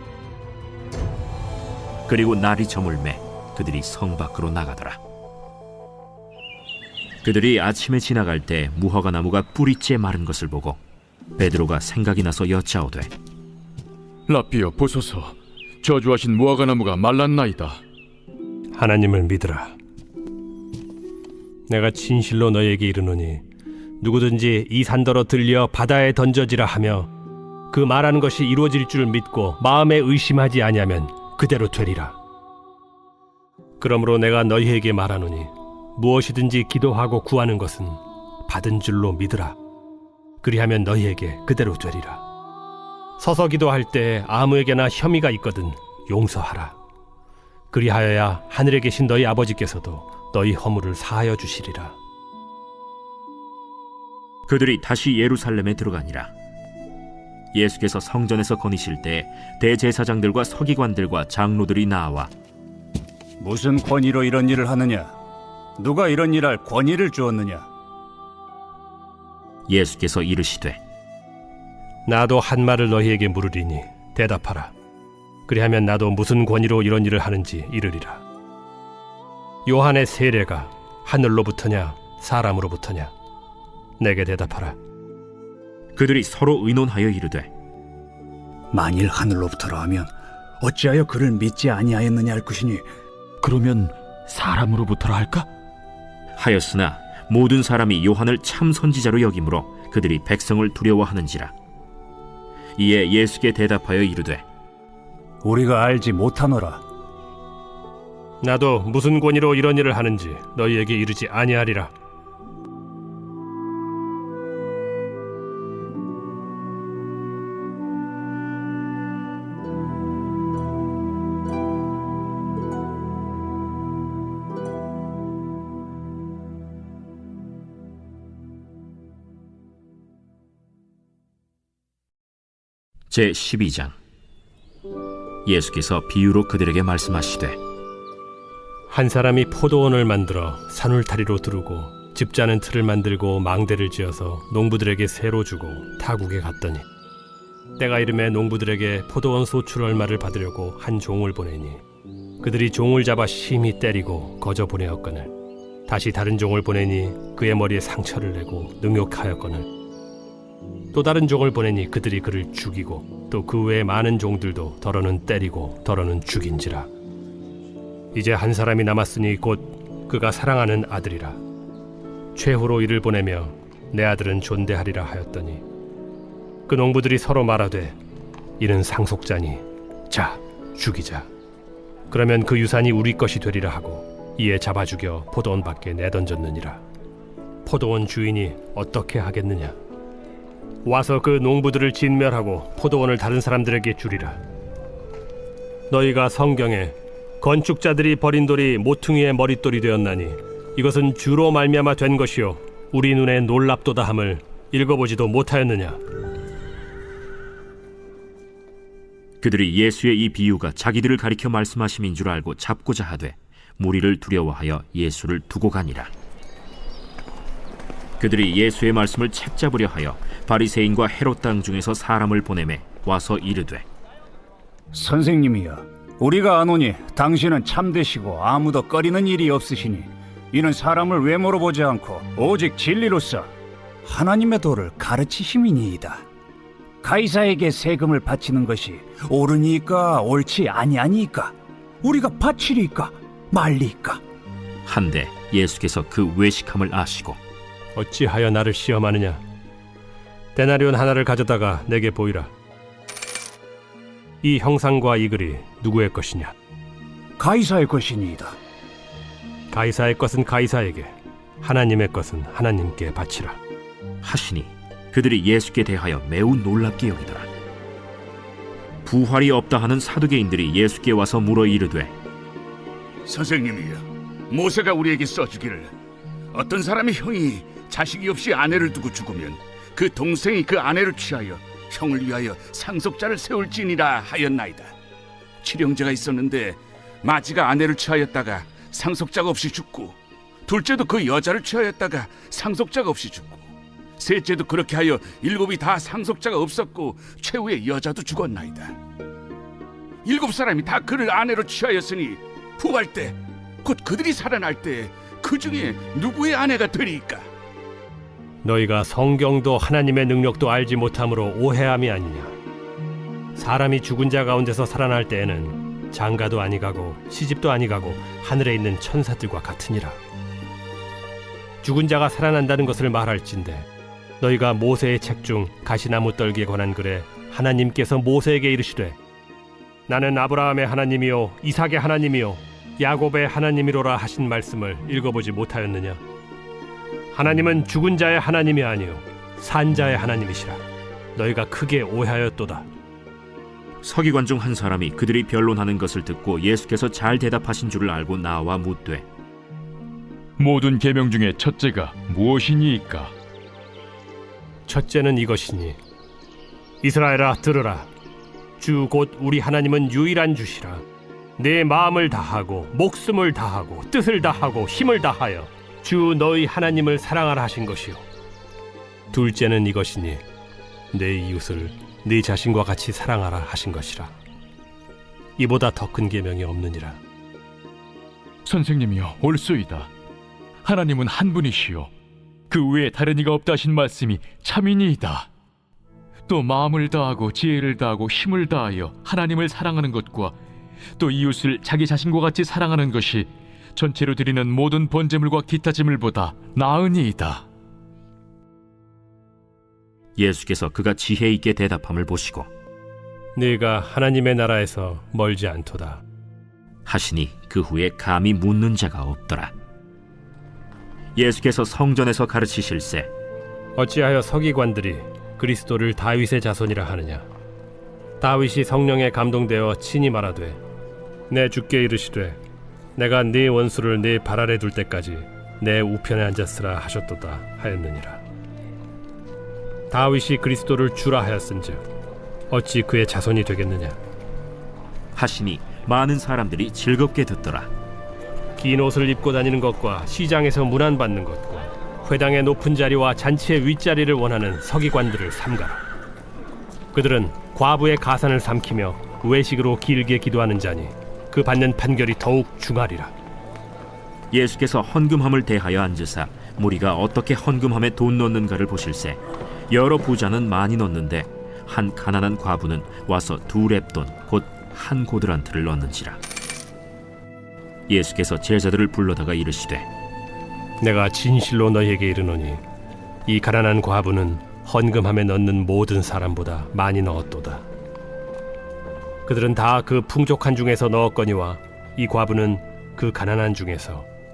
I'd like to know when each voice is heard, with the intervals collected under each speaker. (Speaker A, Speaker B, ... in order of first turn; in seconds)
Speaker A: 2.1-5.0, 7.2-10.8, 11.4-13.1, 54.5-56.3, 57.5-62.3, 69.7-70.8, 86.0-87.5, 96.4-101.5, 102.8-104.4, 133.1-133.9, 135.4-137.6, 209.4-216.1, 218.2-223.8, 244.8-247.4, 264.2-267.5, 269.0-272.1, 344.0-349.2, 400.4-402.7, 407.1-409.7, 411.4-413.3, 435.3-437.9, 454.5-466.4, 468.1-470.1
Speaker B: 14.3-17.8, 350.6-353.3, 378.6-380.1, 380.8-382.1, 382.7-385.5, 386.5-390.6, 391.1-397.7
Speaker C: 18.8-19.7, 21.7-23.4, 24.0-27.1, 27.7-32.2, 33.8-39.6, 40.4-42.2, 43.2-46.8, 47.7-52.0, 72.1-74.7, 75.5-78.2, 79.7-83.1, 84.0-84.8, 108.4-111.9, 138.9-146.8, 147.8-151.8, 152.4-155.3, 155.9-159.7, 160.9-166.9, 168.1-171.4, 172.3-175.6, 176.7-177.9, 178.6-181.3, 182.1-186.8, 187.6-189.7, 190.8-194.4, 195.9-206.0, 247.9-249.4, 250.5-252.5, 254.4-256.5, 259.7-263.6, 308.6-312.5, 313.6-320.2, 321.8-323.9, 324.4-329.2, 330.1-336.2, 337.3-340.8, 341.4-342.9, 354.9-356.0, 357.0-358.1, 358.8-361.0, 361.6-368.2, 369.3-370.4, 371.1-374.3, 375.6-377.2, 403.6-406.2, 414.0-417.4, 418.4-420.8, 421.5-422.6, 423.1-428.4, 430.1-432.0, 432.7-434.2, 438.8-446.0, 447.1-453.3, 471.0-472.8, 473.4-477.8, 479.4-484.3
Speaker D: 63.4-65.1, 65.8-67.7, 88.7-92.9, 105.4-106.8, 224.9-233.5, 234.0-236.2, 237.0-244.2, 257.4-258.6
Speaker E: 93.4-95.5
Speaker F: 273.2-275.9, 276.5-284.9, 285.6-299.0, 300.2-307.5